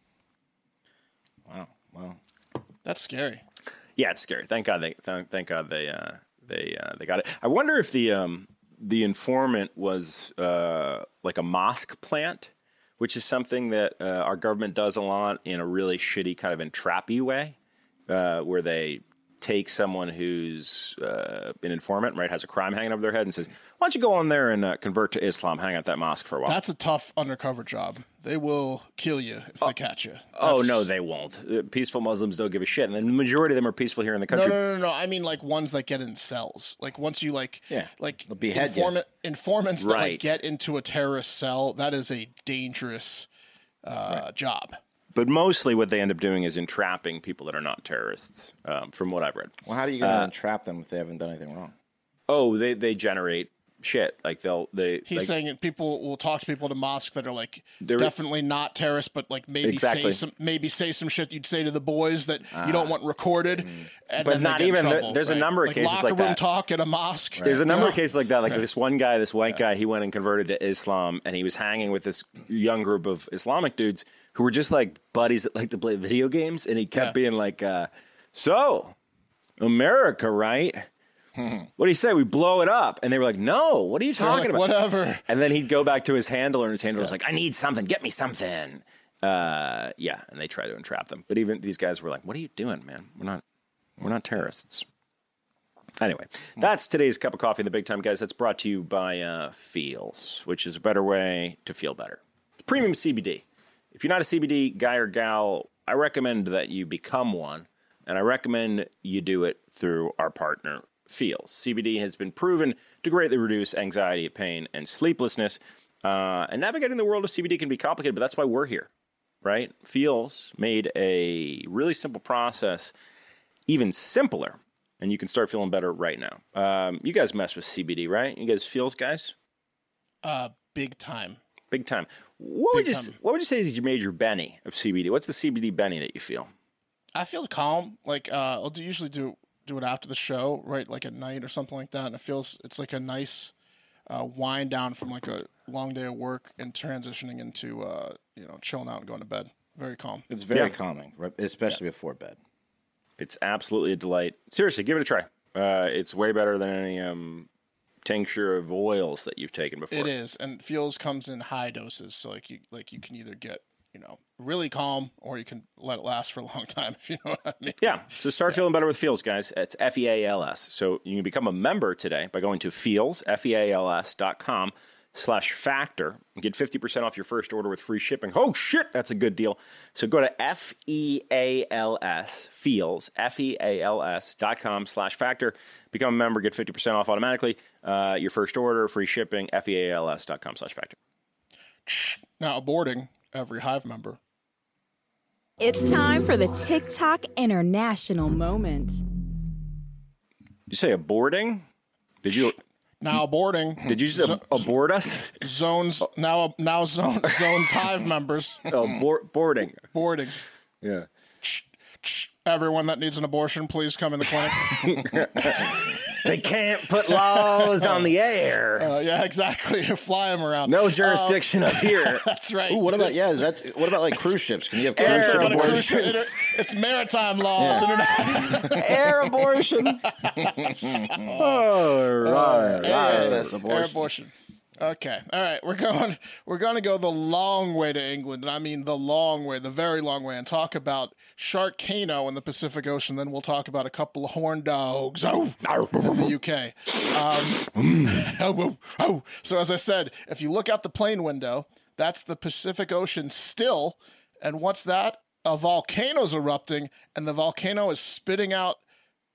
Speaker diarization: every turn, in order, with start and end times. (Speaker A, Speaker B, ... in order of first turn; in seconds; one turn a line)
Speaker A: 1.5-2.2
Speaker B: 2.8-3.4
Speaker C: 4.0-17.6
Speaker C: 18.1-26.6
Speaker B: 26.4-30.9
Speaker C: 30.4-34.6
Speaker B: 34.3-43.3
Speaker A: 37.7-38.9
Speaker C: 39.8-40.3
Speaker B: 43.8-44.8
Speaker C: 45.1-50.3
Speaker A: 49.6-51.7
Speaker C: 52.3-55.3
Speaker B: 55.1-68.6
Speaker C: 57.8-58.1
Speaker C: 59.6-60.2
Speaker A: 62.5-62.9
Speaker C: 64.2-66.4
Speaker A: 67.4-67.7
Speaker C: 67.4-78.9
Speaker C: 79.6-80.9
Speaker C: 81.8-84.7
Speaker B: 84.2-85.2
Speaker C: 85.3-93.4
Speaker C: 94.0-94.8
Speaker C: 96.0-118.9
Speaker C: 119.4-122.9
Speaker C: 123.7-129.3
Speaker B: 130.2-131.4
Speaker C: 131.7-136.5
Speaker B: 132.7-133.2
Speaker B: 137.1-143.5
Speaker B: 144.1-150.2
Speaker A: 150.3-152.4
Speaker C: 153.2-157.5
Speaker C: 158.0-160.1
Speaker B: 159.9-167.9
Speaker C: 167.8-190.9
Speaker B: 191.9-194.2
Speaker D: 195.6-199.0
Speaker C: 200.7-201.6
Speaker C: 202.2-202.6
Speaker B: 203.0-204.7
Speaker C: 203.8-205.3
Speaker B: 205.3-208.7
Speaker C: 208.7-209.8
Speaker B: 209.9-210.4
Speaker C: 210.8-211.1
Speaker B: 211.4-215.7
Speaker C: 214.6-218.9
Speaker B: 217.1-218.1
Speaker B: 218.8-223.3
Speaker C: 220.7-222.2
Speaker A: 222.7-226.3
Speaker B: 224.9-229.4
Speaker C: 225.0-226.4
Speaker A: 227.6-228.7
Speaker C: 228.6-230.1
Speaker B: 230.0-231.7
Speaker A: 230.4-231.3
Speaker C: 231.3-233.5
Speaker B: 232.2-258.8
Speaker A: 232.7-234.0
Speaker C: 245.7-246.3
Speaker C: 247.6-248.2